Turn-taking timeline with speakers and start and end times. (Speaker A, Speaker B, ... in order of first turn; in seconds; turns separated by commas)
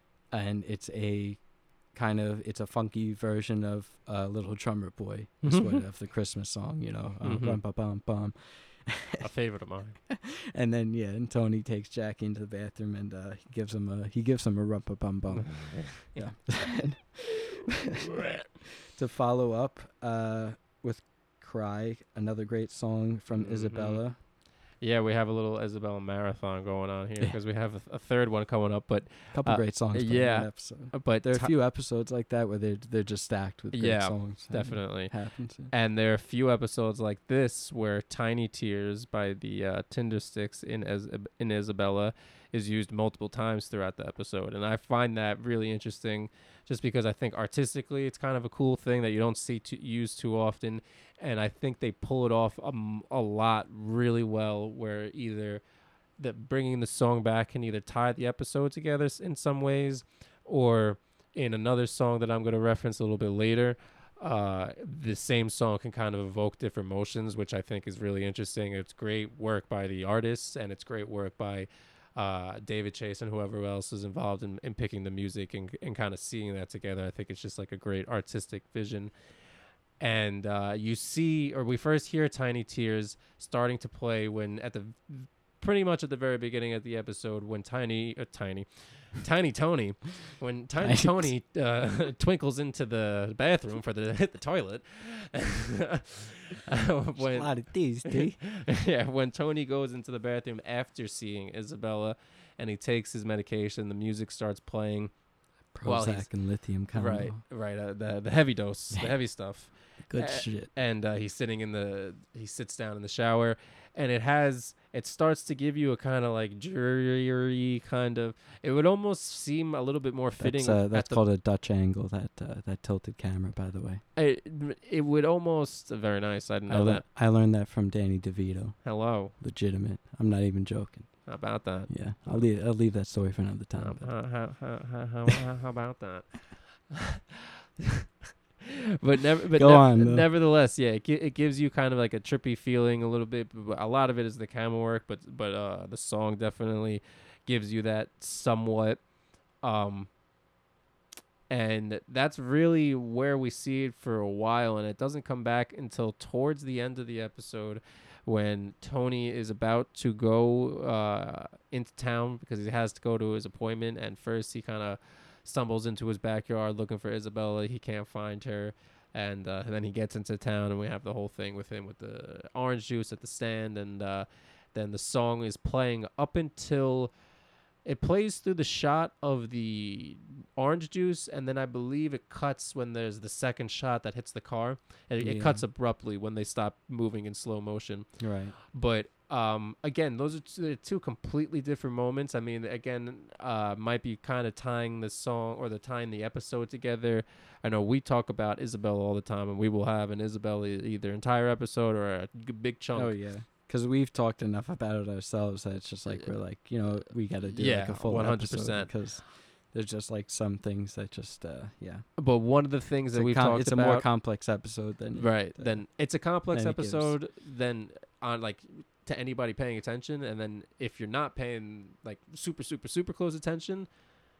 Speaker A: 0.2-9.3, Speaker B: 5.4-5.8, Speaker B: 7.2-7.6, Speaker B: 9.2-10.0, Speaker A: 10.1-24.2, Speaker B: 15.3-16.3, Speaker B: 23.3-31.5, Speaker A: 29.3-35.7, Speaker B: 33.7-55.6, Speaker B: 56.2-79.2, Speaker B: 80.0-121.2, Speaker A: 90.8-91.3, Speaker A: 97.1-98.4, Speaker A: 105.7-107.4, Speaker A: 110.0-110.7, Speaker A: 120.4-124.0, Speaker B: 124.1-127.0, Speaker A: 126.7-134.4, Speaker B: 128.8-129.3, Speaker B: 131.2-132.5, Speaker B: 133.8-137.1, Speaker B: 139.0-150.2, Speaker A: 139.6-140.3, Speaker B: 151.5-177.2, Speaker B: 177.8-203.2, Speaker A: 185.2-185.7, Speaker A: 188.2-188.6, Speaker A: 202.9-212.2, Speaker B: 207.4-209.1, Speaker B: 212.2-214.1, Speaker A: 213.1-217.2, Speaker B: 215.2-224.1